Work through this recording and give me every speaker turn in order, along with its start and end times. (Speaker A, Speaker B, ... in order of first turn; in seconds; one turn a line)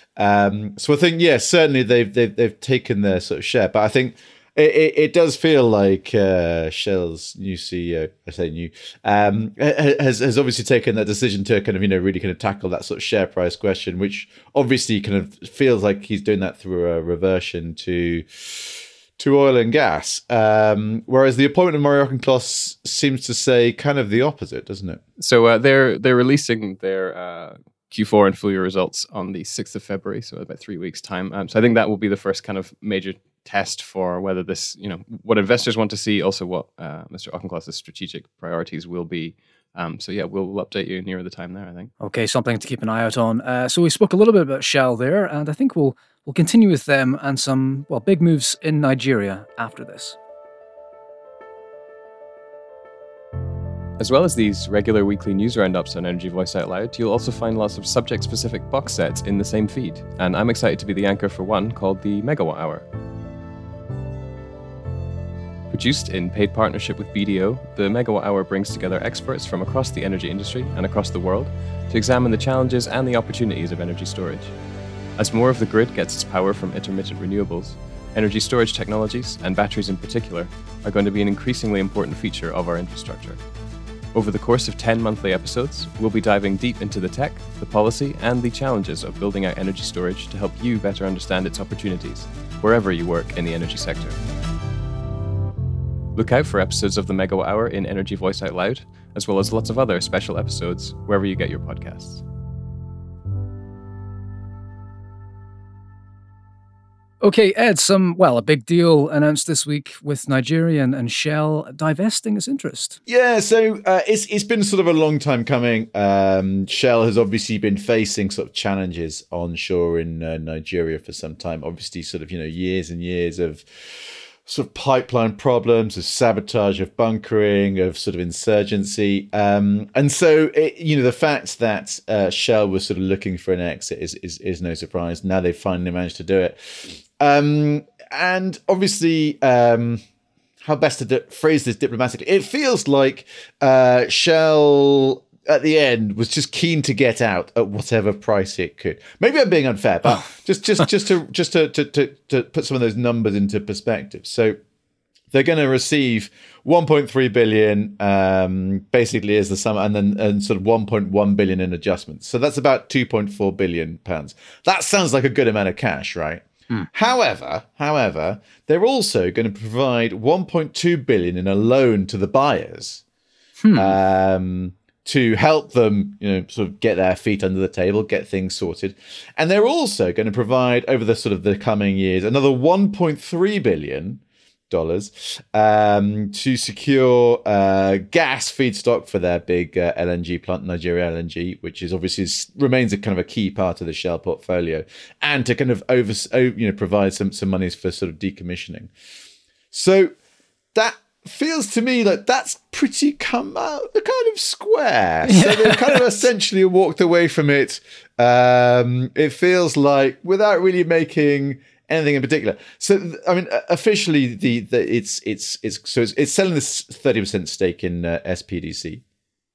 Speaker A: 0.1-25.0
Speaker B: 25.2-41.9
Speaker C: 42.0-50.2
Speaker B: 54.0-62.9
Speaker B: 65.7-74.5
Speaker B: 75.2-83.4
Speaker B: 84.1-94.2
Speaker B: 96.2-102.2
Speaker C: 107.2-113.0
Speaker A: 113.1-140.0
Speaker A: 140.6-154.6
Speaker A: 155.3-173.0
Speaker C: 173.6-173.9
Speaker A: 173.7-198.9
Speaker A: 199.7-200.1
Speaker A: 200.7-219.0
Speaker C: 205.2-206.0